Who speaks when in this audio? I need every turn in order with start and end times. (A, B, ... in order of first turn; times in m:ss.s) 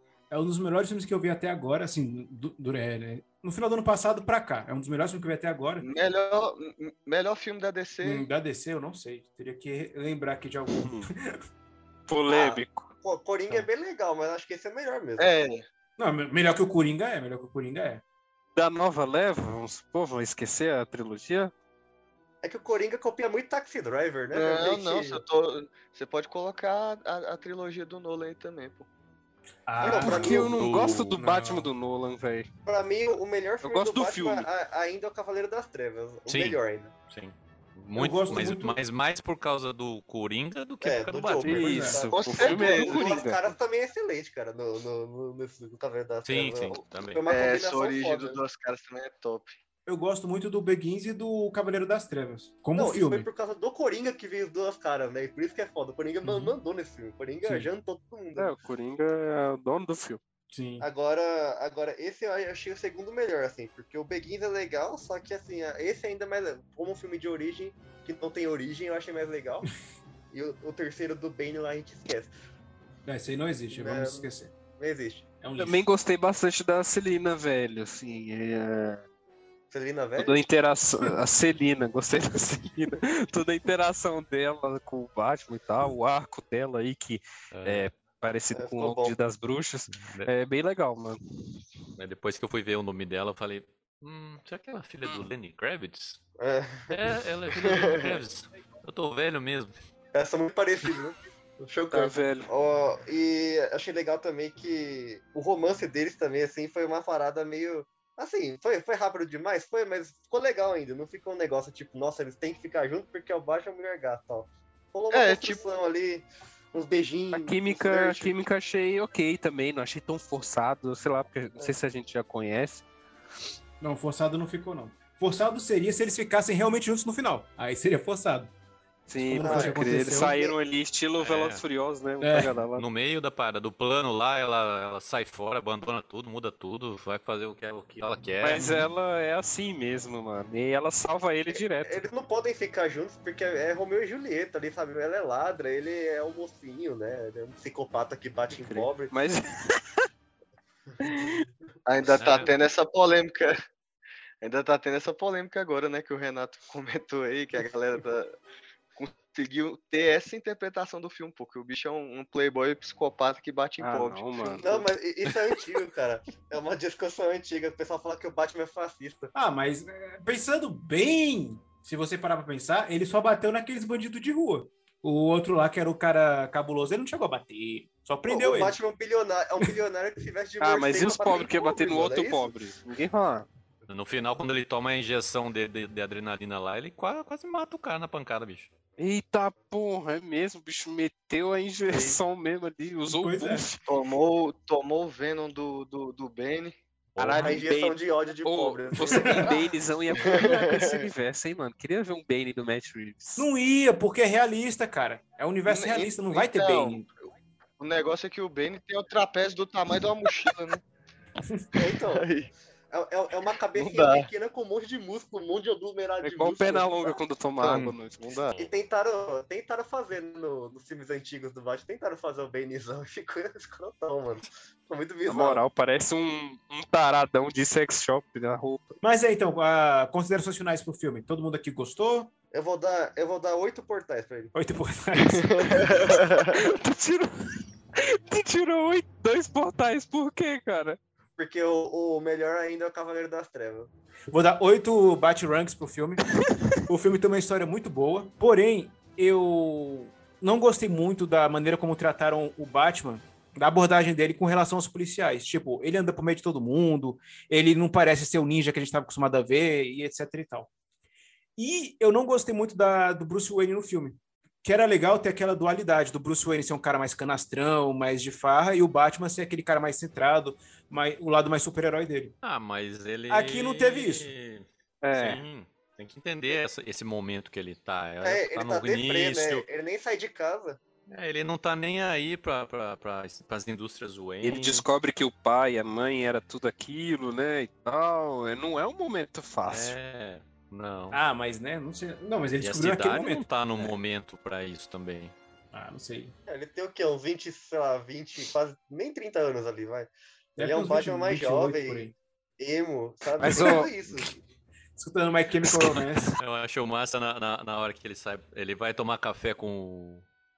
0:00.3-0:05.8 A
0:05.8-0:08.2 B
0:08.0-0:11.4 A
0:10.8-0:11.1 C
0:12.1-0:12.9 C
0:12.3-0:15.3 D
0:15.2-0:15.6 B
0:16.0-0:18.0 A
0:18.6-0:21.5 C
0:22.4-0:25.2 D
0:24.3-0:28.9 B
0:29.7-0:30.5 A
0:29.8-0:30.5 D
0:30.0-0:32.5 C
0:30.0-0:31.1 E
0:31.1-0:31.7 A
0:32.6-0:36.9 D
0:33.6-0:34.5 C
0:36.3-0:41.9 E
0:37.9-0:38.8 A
0:40.8-0:48.4 D
0:41.4-0:43.4 C
0:41.5-0:42.0 A
0:42.1-0:43.2 B
0:46.2-0:47.2 E
0:47.3-0:49.6 B
0:49.8-0:53.3 A
0:52.7-0:58.5 D
0:56.2-0:56.5 A
0:57.4-0:57.7 A
0:58.4-1:00.2 C
1:00.5-1:00.8 A
1:00.8-1:09.7 D
1:10.3-1:12.3 D
1:13.0-1:14.5 A
1:13.7-1:15.2 D
1:15.4-1:15.8 A
1:15.6-1:19.0 C
1:19.7-1:20.4 D
1:20.2-1:31.2 C
1:27.5-1:27.9 E
1:28.5-1:29.2 D
1:29.9-1:30.3 E
1:32.0-1:36.2 E
1:36.4-1:37.0 D
1:36.9-1:39.7 E
1:37.7-1:38.1 D
1:40.1-1:58.3 D
1:41.9-1:42.5 C
1:55.1-1:55.6 B
1:57.3-2:02.8 C
2:03.8-2:08.5 A
2:09.1-2:12.8 C
2:09.2-2:10.4 A
2:09.4-2:10.5 D
2:11.2-2:11.6 E
2:12.2-2:12.5 A
2:12.8-2:18.6 E
2:18.4-2:22.0 C
2:18.5-2:18.9 A
2:21.5-2:29.1 D
2:28.5-2:30.0 C
2:31.0-2:31.4 C
2:31.8-2:33.5 B
2:32.2-2:32.5 E
2:34.4-2:38.4 B
2:39.0-2:44.8 B
2:43.8-2:44.8 C
2:44.6-2:49.3 D
2:49.3-2:58.8 A
2:58.3-3:02.7 D
3:00.6-3:03.5 C
3:03.9-3:08.7 E
3:09.0-3:13.8 C
3:11.9-3:12.2 D
3:13.1-3:13.6 A
3:13.8-3:16.8 B
3:17.2-3:17.5 E
3:17.2-3:23.4 C
3:17.4-3:19.6 D
3:19.1-3:19.5 A
3:23.4-3:27.0 A
3:25.7-3:27.1 B
3:27.8-3:30.8 B
3:31.7-3:32.2 D
3:32.1-3:32.5 B
3:32.9-3:37.2 D
3:33.7-3:34.3 B
3:36.2-3:38.3 C
3:37.6-3:38.6 B
3:38.6-3:45.6 D
3:45.3-3:48.8 C
3:49.0-3:52.3 A
3:52.5-3:54.5 D
3:54.5-3:56.1 A
3:55.3-3:56.6 B
3:56.5-4:01.0 C
4:01.4-4:03.9 D
4:04.3-4:06.2 A
4:06.9-4:20.7 A
4:21.6-4:32.3 A
4:32.4-4:39.6 E
4:33.3-4:34.3 A
4:35.0-4:35.4 C
4:38.2-4:40.8 D
4:41.1-4:44.8 E
4:44.4-4:49.9 C
4:49.6-4:51.2 E
4:51.1-4:54.0 A
4:52.6-4:55.3 E
4:55.7-4:56.3 A
4:56.5-5:04.3 D
5:00.6-5:02.1 A
5:03.4-5:03.9 C
5:03.5-5:03.8 A
5:05.0-5:06.4 A
5:06.4-5:10.2 E